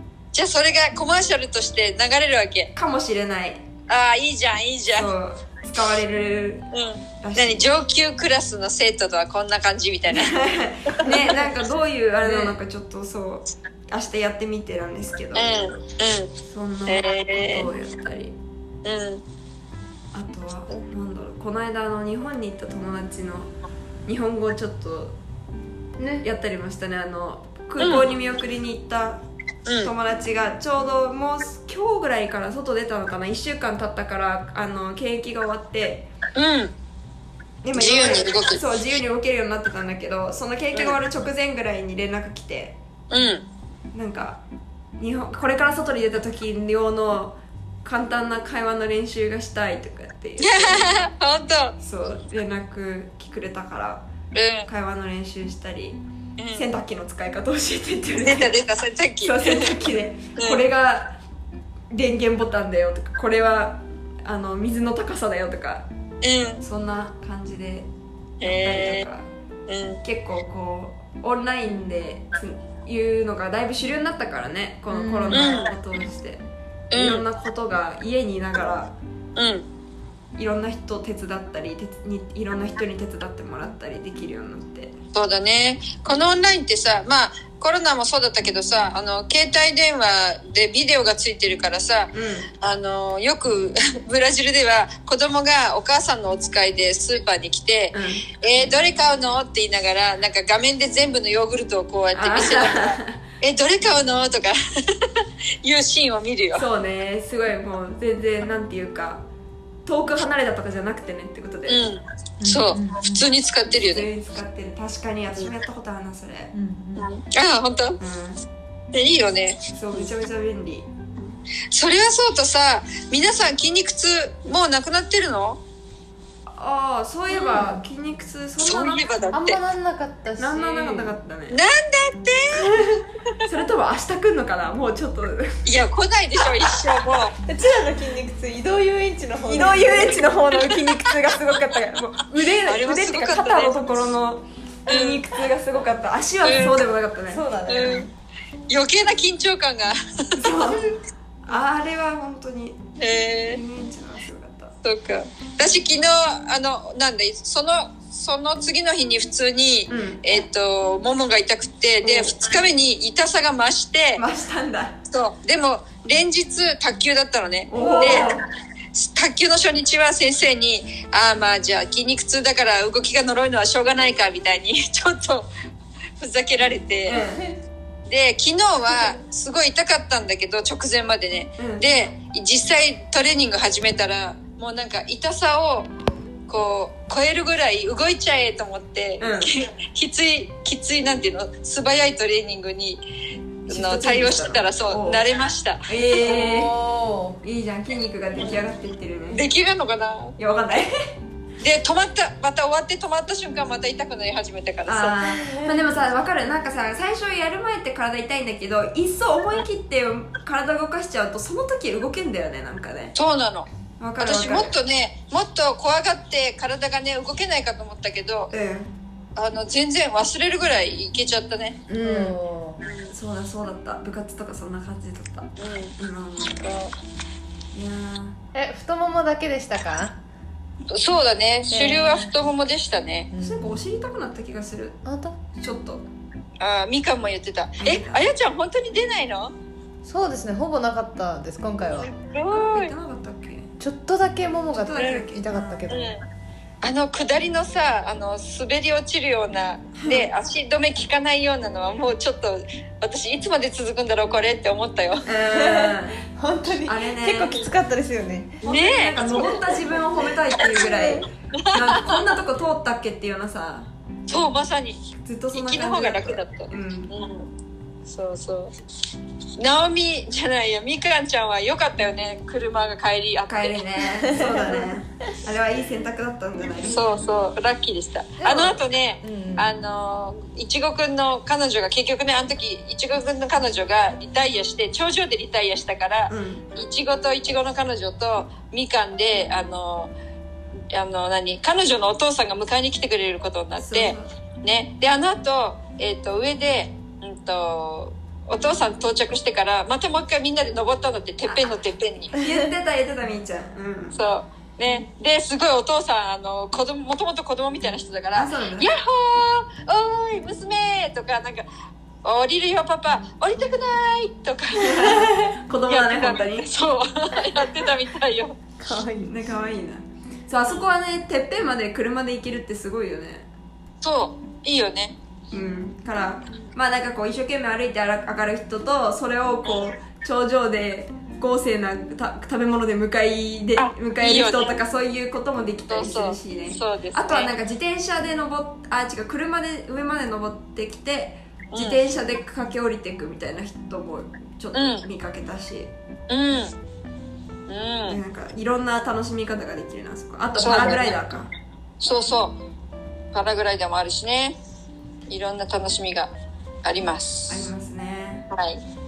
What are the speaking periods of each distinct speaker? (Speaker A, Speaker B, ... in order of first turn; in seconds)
Speaker A: 0.3-2.7, 3.9-5.1, 6.7-11.3, 12.2-12.6, 15.3-16.3, 16.9-17.7, 18.8-19.2, 27.8-28.1, 29.6-29.9, 36.4-36.7, 37.8-38.6, 43.1-43.5, 50.4-51.8, 54.3-54.7, 56.4-56.7, 58.2-59.7, 60.4-60.6, 66.2-66.6, 68.4-69.0, 69.7-70.0, 75.3-75.7, 76.9-77.2, 79.4-79.7, 85.1-106.6, 111.7-114.1, 117.0-118.0, 118.9-119.6, 121.7-125.6, 127.3-127.6, 128.6-129.6, 131.5-132.7, 135.7-137.4, 142.7-143.8, 144.9-145.2, 146.4-146.8, 147.7-148.1, 148.7-150.8, 153.0-153.6, 154.8-164.2, 165.1-168.3, 168.9-175.5, 176.2-177.2, 178.1-185.9, 186.5-193.0, 193.7-197.2, 199.3-200.4, 201.6-205.2, 213.2-213.7, 214.2-218.5, 219.4-221.8, 222.8-223.1, 225.6-226.9, 230.9-233.3, 236.6-239.5, 242.0-242.9, 245.9-246.2, 246.8-255.2, 258.6-259.7, 261.5-262.2, 264.3-265.0, 265.5-267.5, 268.1-268.7, 269.6-273.8, 276.8-290.1, 290.9-302.3, 304.1-311.7, 312.2-318.6, 324.0-325.2, 333.8-334.8, 335.9-337.5, 341.7-342.0, 344.7-345.1, 346.3-346.8, 347.7-348.2, 350.6-351.2, 352.0-352.6, 353.3-354.6, 355.3-356.3, 356.8-357.7, 358.5-358.8
Speaker B: 2.8-3.6, 4.9-6.7, 7.2-7.7, 10.1-15.5, 16.5-18.4, 20.1-23.5, 24.1-25.2, 26.2-29.2, 29.8-36.1, 37.6-42.8, 43.9-44.4, 45.0-51.0, 51.8-54.1, 54.6-56.0, 56.5-58.6, 59.2-61.2, 61.9-65.9, 66.6-67.9, 68.4-69.3, 70.0-79.0, 80.4-85.0, 92.1-92.5, 97.9-98.3, 102.1-103.2, 106.5-109.2, 109.9-111.9, 113.8-116.5, 118.0-118.4, 119.8-120.9, 126.5-129.1, 130.4-131.6, 133.4-135.6, 139.5-147.4, 150.4-152.8, 153.5-154.8, 159.9-160.2, 162.0-162.3, 164.2-165.0, 167.7-168.4, 177.1-177.5, 181.6-181.8, 189.2-189.5, 193.7-195.2, 195.9-196.7, 197.4-199.4, 200.4-200.9, 204.9-213.2, 214.0-214.7, 218.5-218.9, 221.9-222.4, 223.1-226.7, 227.7-228.4, 233.4-235.0, 235.6-236.1, 237.8-238.2, 242.5-243.7, 244.7-245.9, 250.0-250.3, 255.2-256.2, 256.9-257.6, 258.6-263.9, 265.2-267.1, 273.5-277.0, 286.3-286.7, 293.8-294.3, 301.4-301.8, 302.3-304.2, 308.4-308.9, 314.9-316.7, 318.9-323.5, 325.5-345.9, 348.1-351.5, 357.5-358.5
Speaker C: 74.9-75.5, 112.4-113.3, 116.5-117.1, 127.5-127.8, 129.3-131.1, 132.6-133.0, 137.5-140.2, 147.3-148.1, 167.8-168.4, 205.3-205.9, 222.0-222.8, 228.5-230.2, 231.7-232.2, 233.3-233.8, 235.1-235.4, 240.1-242.1, 243.8-246.1, 255.5-258.6, 260.8-261.2, 274.3-274.9, 278.4-279.7, 318.9-319.2